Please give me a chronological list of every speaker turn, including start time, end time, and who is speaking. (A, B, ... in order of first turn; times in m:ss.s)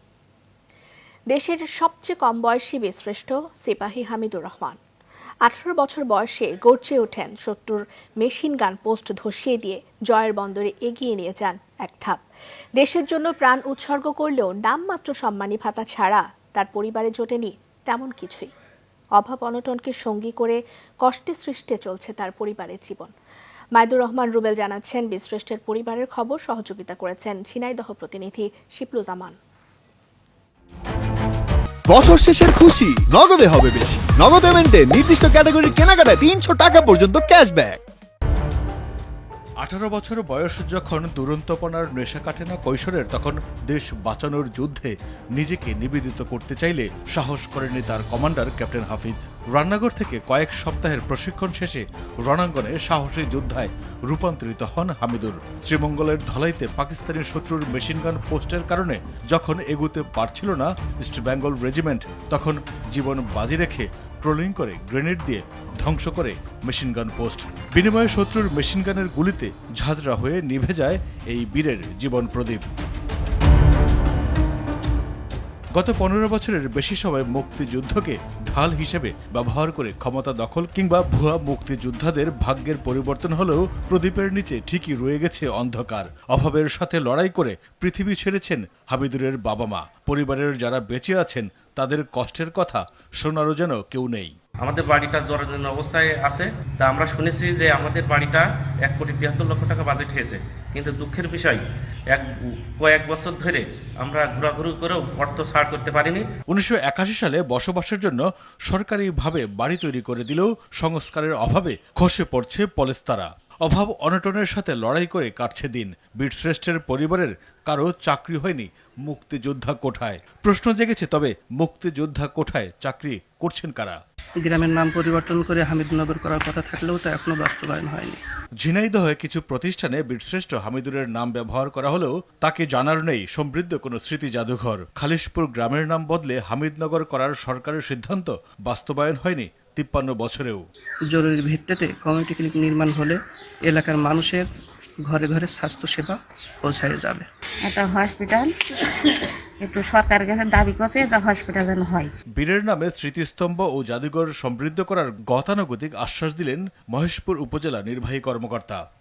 0:01.3-0:04.8 A
0:05.4-0:12.2 A
0:12.8-0:18.5 A
0:19.2-0:23.1 A
0:23.8-0:29.4 A
0:31.9-0:37.8 B
0:39.6-1:12.6 C
1:15.8-1:34.3 C
1:34.6-1:46.2 D
1:46.5-2:04.0 C
2:04.4-2:08.2 E
2:08.6-2:20.6 C
2:21.1-2:24.5 E
2:25.0-2:27.3 E
2:27.6-2:28.5 F
2:29.6-2:32.1 F
2:32.4-2:38.8 C